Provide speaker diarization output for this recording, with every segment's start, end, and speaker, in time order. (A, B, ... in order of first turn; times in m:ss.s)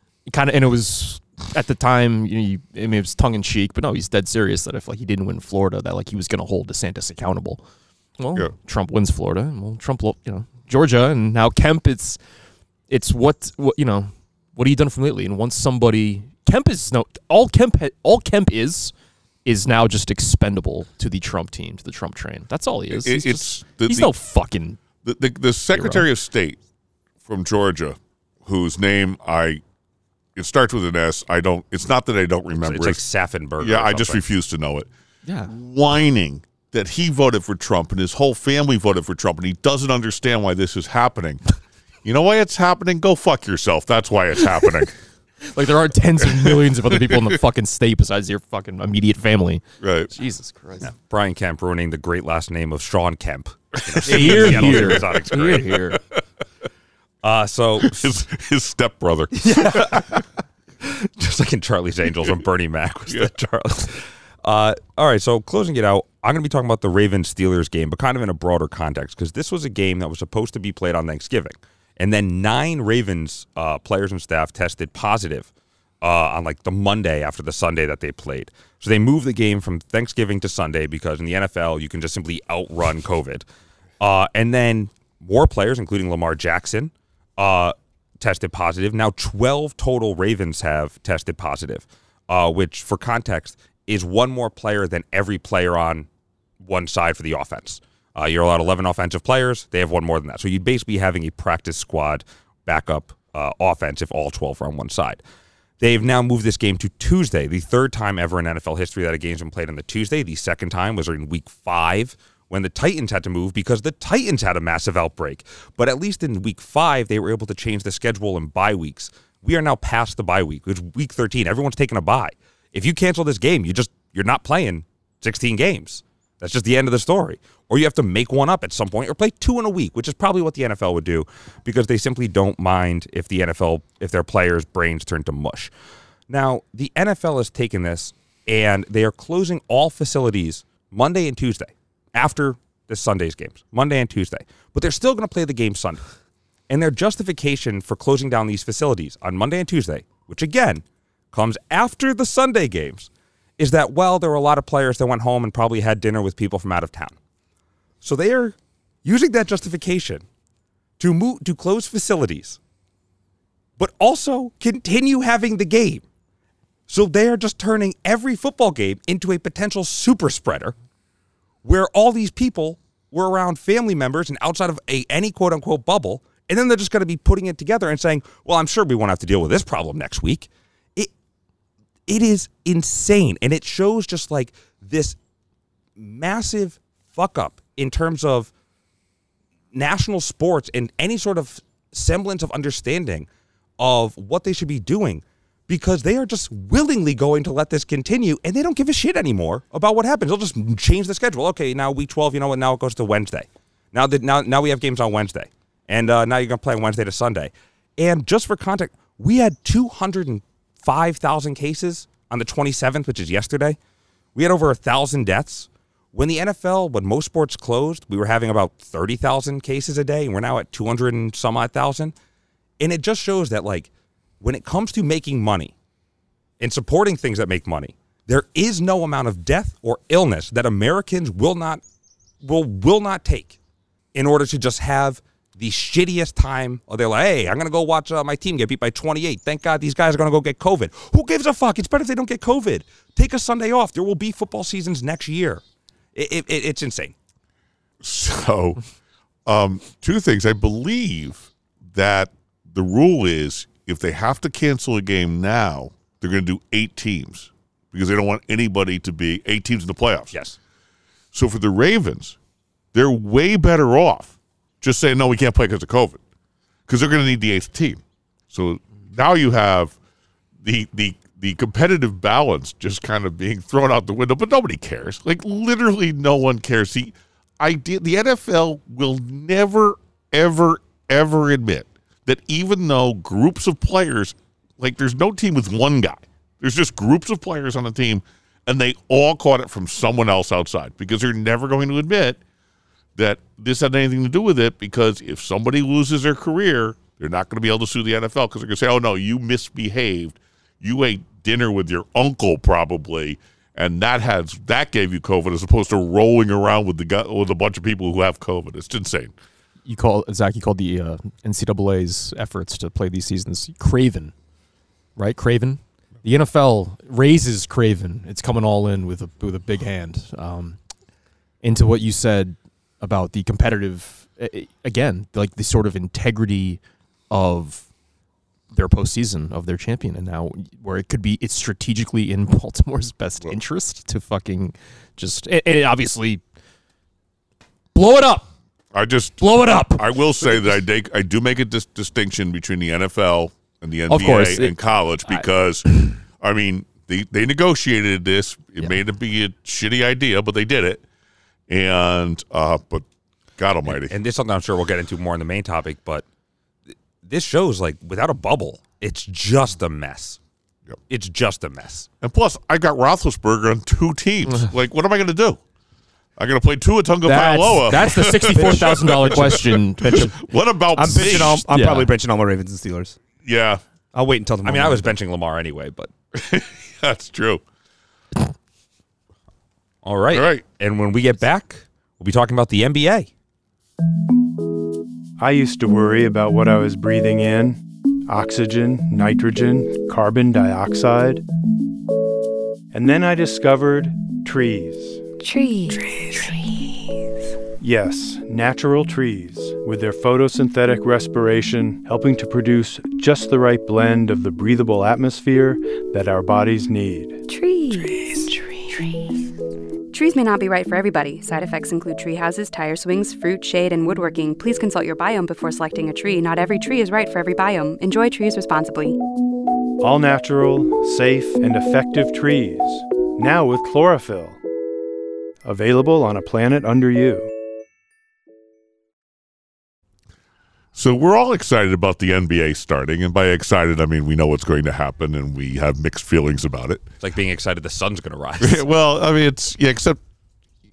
0:00.3-0:07.6 A
0:08.2-0:12.2 A
0:12.9-0:18.9 A
0:19.4-0:24.8 A
0:22.9-0:24.1 B
0:25.0-0:26.6 B
0:25.8-0:26.1 A
0:27.2-0:29.6 B
0:30.4-0:33.0 B
0:32.6-0:34.2 C
0:33.6-0:34.9 B
0:35.3-0:35.5 A
0:35.5-0:41.4 B
0:42.0-0:45.0 B
0:45.4-0:50.9 A
0:46.2-0:46.5 B
0:49.8-0:50.1 B
0:50.8-0:56.0 C
0:53.9-0:55.6 B
0:54.0-0:56.0 A
0:57.2-0:58.1 C
0:57.8-1:00.0 B
0:59.4-1:00.2 C
1:00.8-1:15.5 C
1:16.0-1:23.4 C
1:24.0-1:36.1 C
1:36.6-1:45.2 C
1:45.8-2:15.7 C
2:16.3-2:26.0 C
2:26.7-2:37.2 C
2:38.0-2:40.2 C
2:41.0-2:42.6 C
2:43.8-2:46.0 C
2:46.9-2:50.8 C
2:51.6-3:01.1 C
3:02.1-3:05.2 C
3:06.0-3:08.5 C
3:09.7-3:13.3 C
3:13.8-3:33.8 C
3:34.4-3:42.1 C
3:42.8-3:43.9 C
3:44.4-3:45.8 C
3:46.6-3:51.8 C
3:52.4-3:53.6 C
3:54.1-4:05.6 C
4:06.2-4:07.2 C
4:08.0-4:08.8 B
4:09.5-4:20.3 B
4:20.3-4:20.6 C
4:21.3-4:22.4 B
4:22.9-4:26.2 B
4:26.9-4:30.0 B
4:30.6-4:52.4 B
4:53.2-5:09.3 B
5:09.8-5:14.3 A
5:15.2-5:20.8 A
5:21.6-5:27.9 A
5:28.7-5:36.4 A
5:38.0-5:38.5 A
5:38.9-5:51.0 B
5:39.4-5:40.4 A
5:44.1-5:44.8 A
5:51.7-5:54.2 B
5:53.9-5:56.3 C
5:57.2-6:00.4 C
6:01.1-6:02.1 C
6:02.2-6:05.6 B
6:06.4-6:11.7 B
6:07.2-6:10.3 A
6:08.5-6:10.4 D
6:10.9-6:13.2 D
6:11.1-6:12.1 A
6:13.4-6:13.8 B
6:14.1-6:15.1 D
6:14.6-6:16.1 C
6:16.3-6:17.6 B
6:20.0-6:23.3 C
6:20.3-6:20.6 B
6:25.4-6:31.4 E
6:32.9-6:35.2 E
6:35.4-6:36.9 F
6:37.8-6:47.4 E
6:47.5-6:49.4 F
6:50.1-6:59.2 F
7:00.0-7:04.6 E
7:05.6-7:07.5 E
7:11.0-7:17.1 B
7:17.2-7:18.8 C
7:18.6-7:20.2 B